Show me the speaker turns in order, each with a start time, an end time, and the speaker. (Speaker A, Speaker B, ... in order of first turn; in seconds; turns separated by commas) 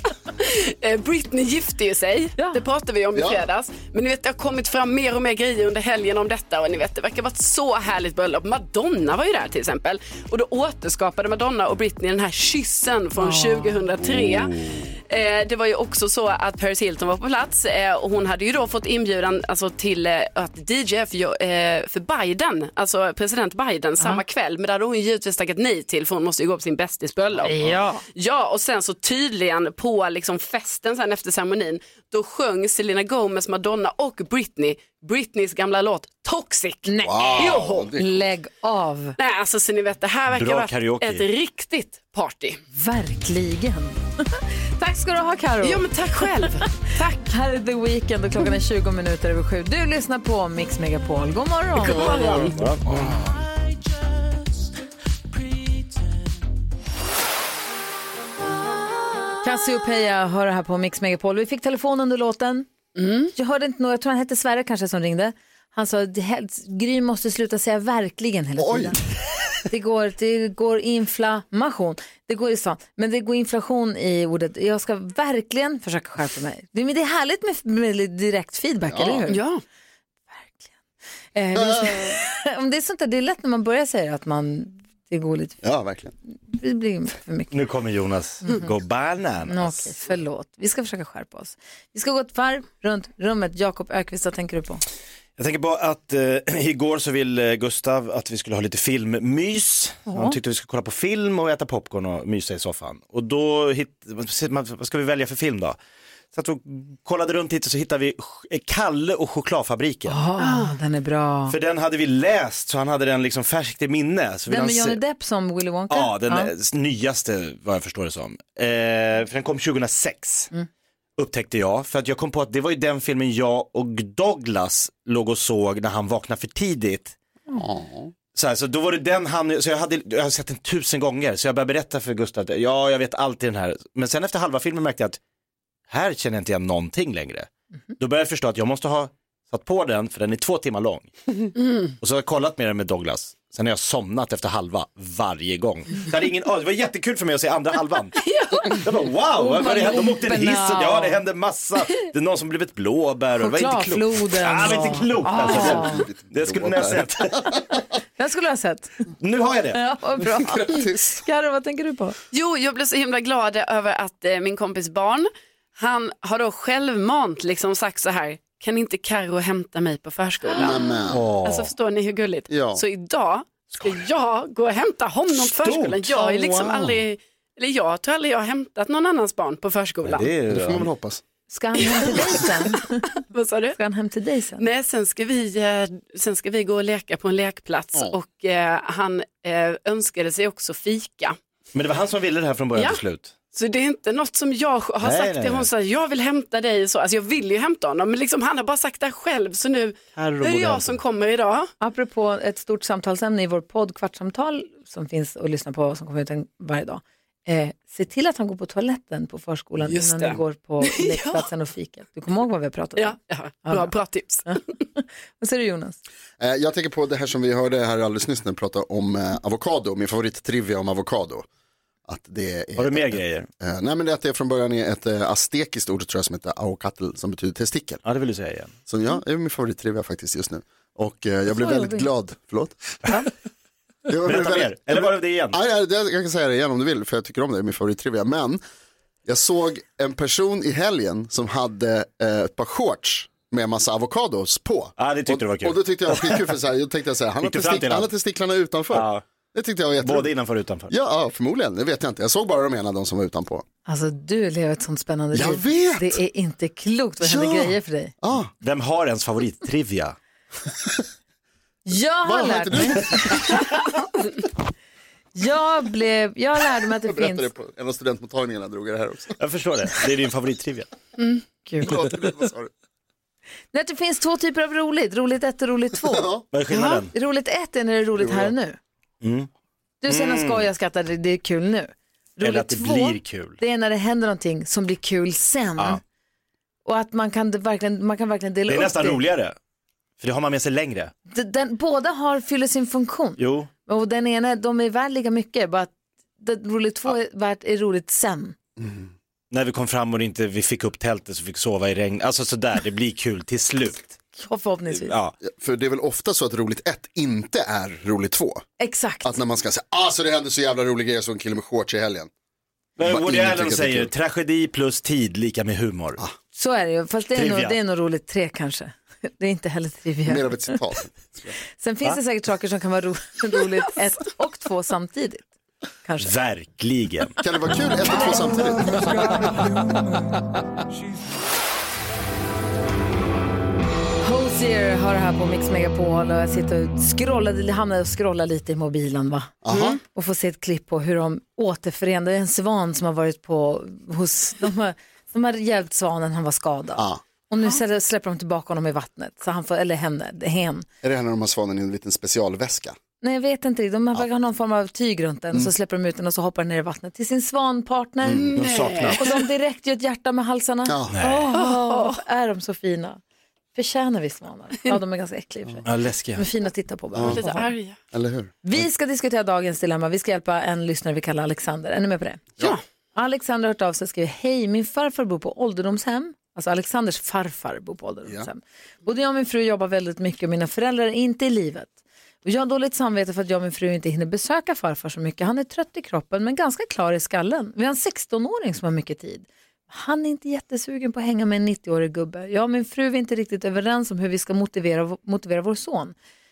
Speaker A: 0.4-37.9, Speaker B: 3.1-3.5, Speaker C: 13.2-13.9, Speaker D: 14.2-14.8, Speaker C: 27.4-28.0, Speaker C: 36.9-39.2, Speaker B: 37.0-38.3, Speaker A: 39.2-42.6, Speaker D: 40.3-41.3, Speaker C: 42.7-46.4, Speaker A: 45.6-47.3, Speaker C: 47.2-52.5, Speaker A: 51.8-52.6, Speaker D: 51.9-53.2, Speaker C: 59.4-62.7, Speaker A: 63.0-63.3, Speaker C: 63.4-69.0, Speaker B: 68.6-69.0, Speaker C: 69.7-79.4, Speaker B: 78.9-79.2, Speaker A: 79.3-79.6, Speaker C: 80.3-80.7, Speaker C: 81.3-85.6, Speaker B: 81.5-82.2, Speaker B: 85.6-86.1, Speaker C: 86.5-87.5, Speaker D: 87.5-89.9, Speaker C: 89.5-94.8, Speaker D: 95.4-105.8, Speaker C: 100.1-100.4, Speaker D: 106.3-110.2, Speaker C: 110.1-111.6, Speaker A: 110.4-110.7, Speaker D: 111.5-115.0, Speaker C: 114.5-116.5, Speaker D: 115.9-120.5, Speaker D: 121.2-127.2, Speaker B: 127.5-128.1, Speaker D: 128.3-135.2, Speaker D: 135.9-141.1, Speaker D: 142.0-157.8, Speaker A: 148.2-148.8, Speaker C: 149.4-151.2, Speaker C: 153.4-156.1, Speaker B: 155.2-157.6, Speaker C: 158.2-158.9, Speaker D: 159.2-159.8, Speaker C: 159.7-162.2, Speaker B: 160.6-161.0, Speaker A: 162.3-170.8, Speaker B: 170.6-171.3, Speaker D: 171.1-171.7, Speaker A: 171.4-180.3, Speaker B: 172.5-172.8, Speaker D: 175.3-176.3, Speaker B: 176.7-176.9, Speaker D: 180.0-180.9, Speaker B: 180.5-181.2, Speaker C: 181.5-183.1, Speaker A: 181.8-182.5, Speaker A: 183.2-183.8, Speaker C: 183.8-184.7, Speaker A: 184.6-191.4, Speaker D: 191.7-193.3, Speaker A: 192.8-193.0, Speaker A: 193.5-201.7, Speaker D: 195.0-195.7, Speaker D: 200.2-201.0, Speaker C: 201.8-213.9, Speaker A: 209.8-211.5, Speaker A: 213.0-214.6, Speaker C: 214.5-216.0, Speaker B: 216.4-221.5, Speaker B: 222.1-228.0, Speaker D: 222.8-223.5, Speaker D: 228.0-228.7, Speaker B: 228.9-233.0, Speaker C: 231.5-232.1, Speaker B: 234.1-238.6, Speaker D: 234.2-235.6, Speaker B: 239.3-250.3, Speaker D: 245.0-246.5, Speaker D: 247.4-248.1, Speaker D: 248.9-249.2, Speaker D: 250.0-250.9, Speaker B: 250.9-253.7, Speaker C: 253.9-258.1, Speaker B: 255.3-256.2, Speaker B: 257.2-258.5, Speaker D: 258.6-260.2, Speaker C: 261.9-263.7, Speaker B: 262.2-263.6, Speaker C: 265.4-267.5, Speaker B: 267.0-269.4, Speaker D: 269.4-270.9, Speaker C: 271.7-271.9, Speaker B: 271.8-272.7, Speaker C: 273.7-276.3, Speaker B: 276.0-276.4, Speaker D: 276.5-277.1, Speaker A: 276.7-277.1, Speaker C: 277.1-278.8, Speaker B: 278.2-278.5, Speaker D: 279.2-279.5, Speaker C: 280.0-286.0, Speaker D: 280.1-280.7, Speaker D: 282.4-283.6, Speaker C: 286.9-289.2, Speaker D: 288.7-289.6, Speaker D: 290.2-291.1, Speaker C: 291.3-298.6, Speaker D: 293.4-293.7, Speaker B: 298.8-299.1, Speaker D: 299.5-304.2, Speaker C: 304.4-305.1, Speaker D: 304.9-305.4, Speaker B: 305.4-308.6, Speaker C: 308.8-309.4, Speaker B: 309.2-312.3, Speaker D: 313.0-316.2, Speaker B: 313.0-314.1, Speaker C: 316.6-320.8, Speaker D: 317.4-317.8, Speaker B: 320.3-321.6, Speaker C: 321.8-325.5, Speaker C: 326.0-326.3, Speaker D: 326.2-327.4, Speaker B: 327.4-329.7, Speaker C: 328.1-329.3, Speaker C: 334.2-339.6, Speaker B: 339.6-340.0, Speaker A: 339.7-340.0, Speaker C: 340.1-350.9, Speaker B: 351.0-353.0, Speaker C: 353.2-358.5, Speaker B: 358.2-358.6, Speaker A: 358.4-359.4, Speaker D: 358.6-359.2, Speaker C: 359.2-363.2, Speaker B: 360.9-361.2, Speaker D: 361.1-361.5, Speaker A: 361.5-362.2, Speaker C: 363.8-367.7, Speaker D: 365.9-366.5, Speaker B: 367.1-367.4, Speaker A: 367.3-368.0, Speaker B: 368.1-368.7, Speaker C: 368.6-372.4, Speaker C: 373.1-381.9, Speaker C: 382.4-396.1